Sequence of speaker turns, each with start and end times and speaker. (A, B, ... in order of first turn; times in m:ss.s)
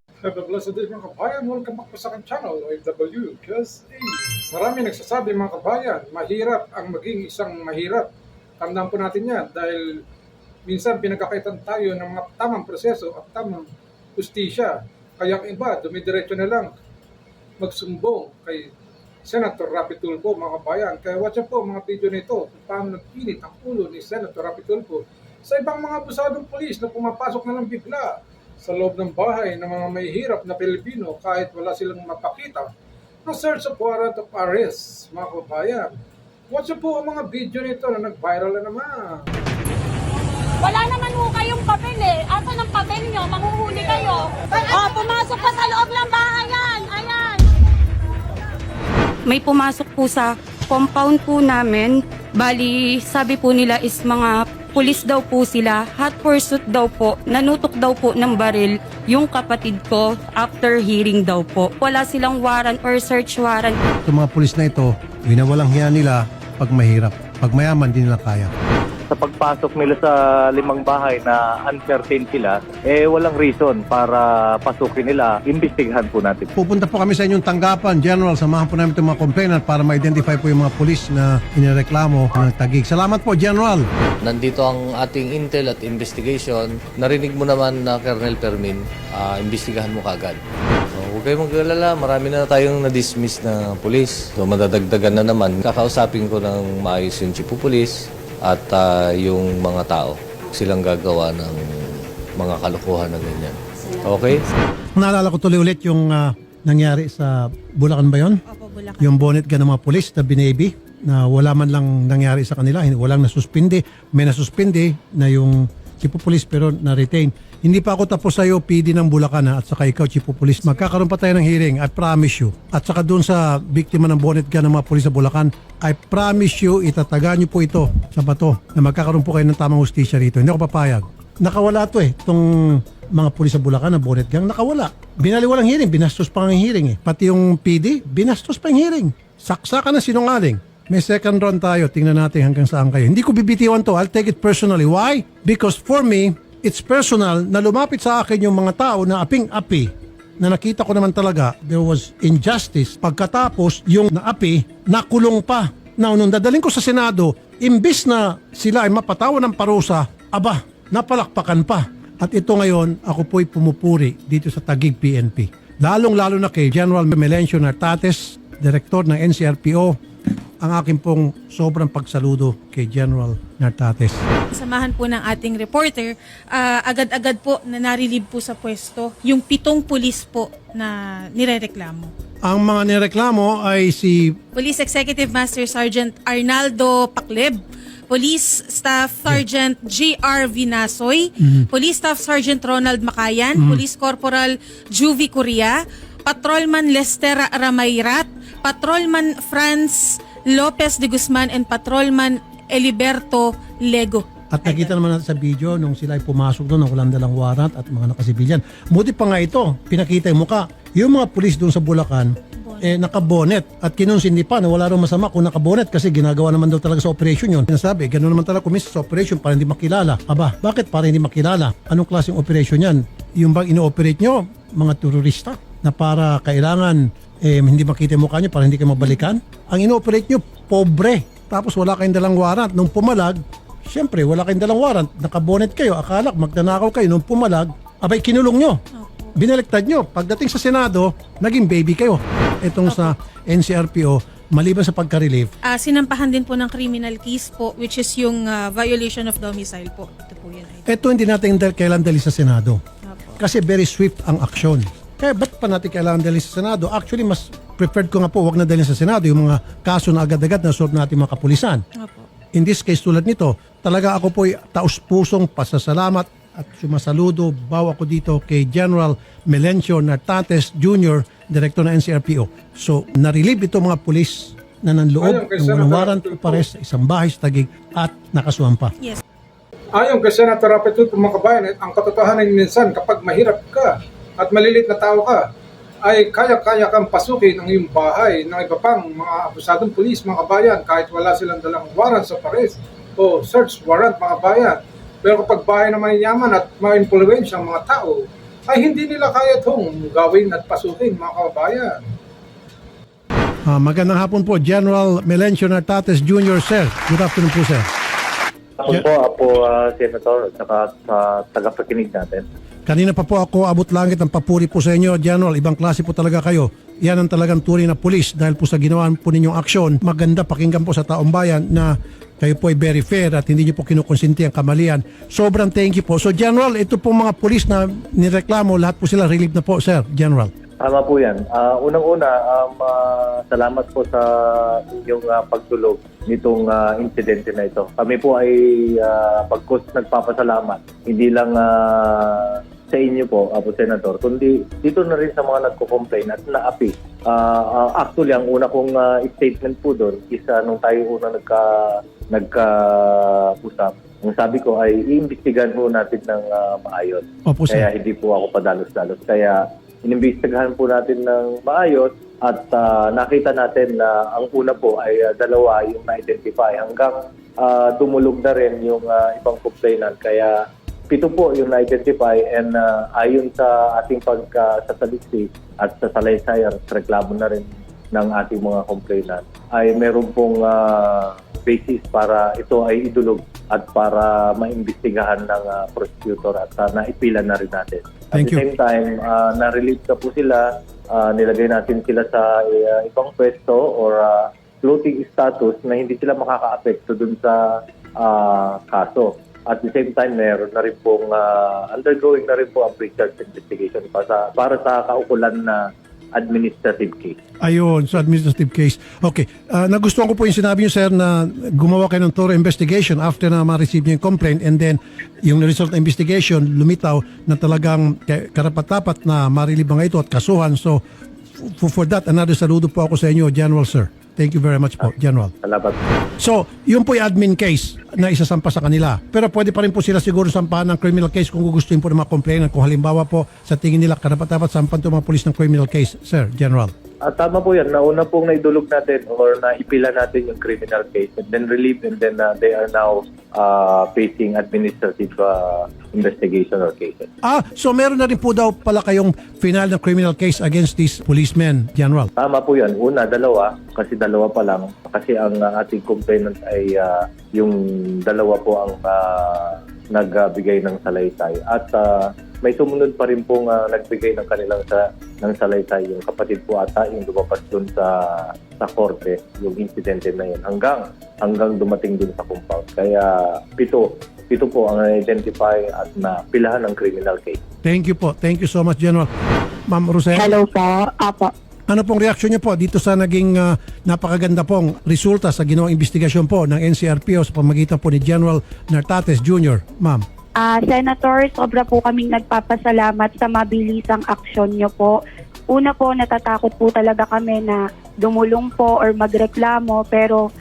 0:00.2-0:10.0 A
0:10.7-0:16.7 A
0:17.6-0:18.7 A
0:19.2-0:32.7 A
0:33.2-0:36.0 A
0:36.5-0:39.2 A
0:40.6-0:47.5 B
0:49.3-1:03.8 C
1:04.1-1:08.5 D
1:09.1-1:16.5 E
1:16.6-1:23.9 D
1:24.2-1:30.4 F
1:31.0-1:44.4 F
1:45.0-1:48.4 D
1:48.4-1:49.3 G
1:49.0-2:50.0 D
2:50.6-2:54.2 D
2:54.5-3:02.1 G
3:02.4-3:04.4 D
3:04.5-3:24.9 G
3:11.4-3:11.7 D
3:13.5-3:13.8 D
3:24.5-3:58.8 D
3:32.6-3:33.0 G
3:58.9-3:59.3 G
3:59.3-4:05.5 D
4:02.8-4:03.1 G
4:05.6-4:10.9 G
4:10.8-4:12.8 D
4:13.0-4:13.4 G
4:13.4-4:21.8 D
4:22.0-4:22.3 G
4:22.5-4:38.9 D
4:35.2-4:36.6 A
4:39.9-4:45.4 A
4:46.0-5:02.0 A
5:03.7-5:07.9 D
5:08.8-5:12.4 E
5:12.8-5:30.5 D
5:30.8-6:10.5 E
5:57.4-5:57.9 D
6:11.1-6:37.6 E
6:28.3-6:28.6 D
6:38.2-6:45.8 E
6:46.4-6:47.4 E
6:47.6-7:01.0 D
7:01.6-7:05.5 D
7:05.6-7:06.0 E
7:06.4-7:16.9 D
7:17.2-7:27.3 E
7:27.4-7:32.3 D
7:32.4-7:42.1 E
7:42.6-7:57.6 E
7:57.8-7:59.3 D
7:59.9-8:00.5 D
8:00.3-8:01.5 H
8:01.9-8:10.2 D
8:10.6-8:15.1 H
8:15.7-8:20.4 H